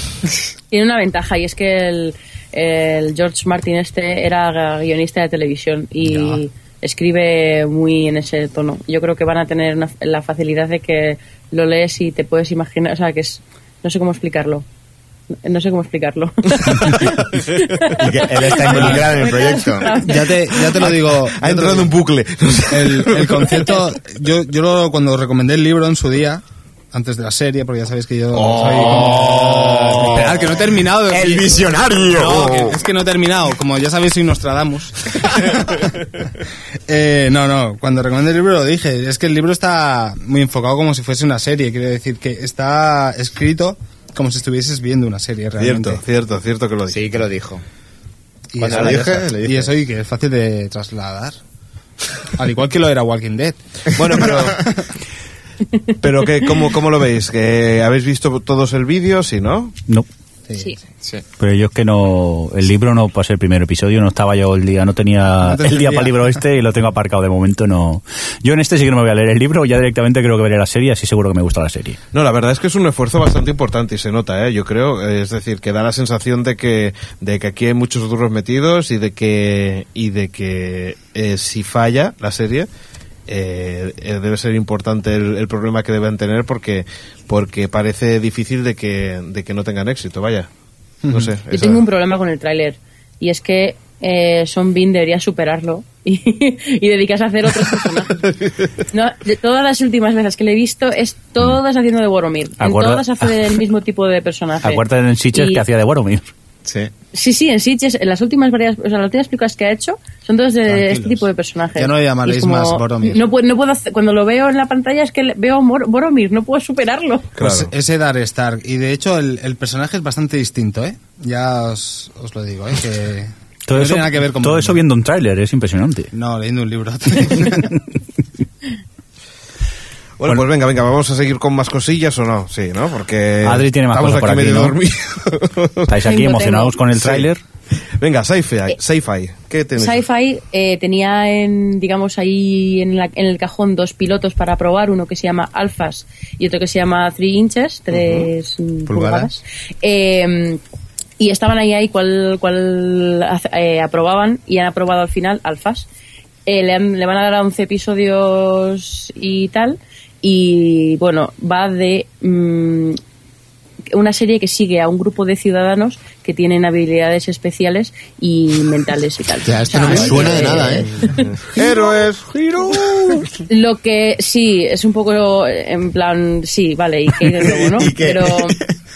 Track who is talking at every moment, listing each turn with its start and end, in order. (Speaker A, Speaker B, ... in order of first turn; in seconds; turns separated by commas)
Speaker A: 0.7-14.6, Speaker A: 15.4-20.8, Speaker B: 17.9-20.0, Speaker C: 18.7-19.1, Speaker C: 19.9-21.9, Speaker D: 20.8-23.6, Speaker C: 22.7-35.8, Speaker D: 28.3-30.3, Speaker B: 31.0-32.8, Speaker C: 36.9-46.0, Speaker D: 45.6-47.1, Speaker B: 46.9-47.6, Speaker C: 48.5-51.4, Speaker B: 48.6-49.7, Speaker D: 48.7-49.3, Speaker C: 52.3-54.6, Speaker D: 53.9-54.6, Speaker D: 56.0-59.7, Speaker C: 60.5-60.7, Speaker E: 61.4-72.0, Speaker C: 65.4-66.4, Speaker D: 72.1-82.7, Speaker D: 83.3-90.5, Speaker C: 91.0-91.3, Speaker D: 91.1-91.8, Speaker A: 91.5-98.3, Speaker D: 98.2-98.5, Speaker A: 98.9-104.8, Speaker E: 102.6-103.3, Speaker E: 104.6-106.3, Speaker A: 105.3-105.6, Speaker B: 106.6-106.9, Speaker A: 107.1-117.3, Speaker C: 110.7-113.2, Speaker D: 117.4-117.7, Speaker C: 117.4-124.8, Speaker E: 123.7-126.1, Speaker C: 126.1-127.8, Speaker D: 130.2-135.9, Speaker E: 133.4-134.8, Speaker E: 135.9-137.4, Speaker A: 136.0-136.8, Speaker D: 136.9-137.3, Speaker D: 138.0-140.0, Speaker A: 139.8-150.6, Speaker D: 147.9-148.3, Speaker B: 148.9-149.3, Speaker A: 151.2-155.9, Speaker A: 156.5-163.0, Speaker A: 163.9-171.9, Speaker B: 169.4-171.0, Speaker D: 169.8-173.3, Speaker A: 173.5-178.6, Speaker B: 177.4-178.7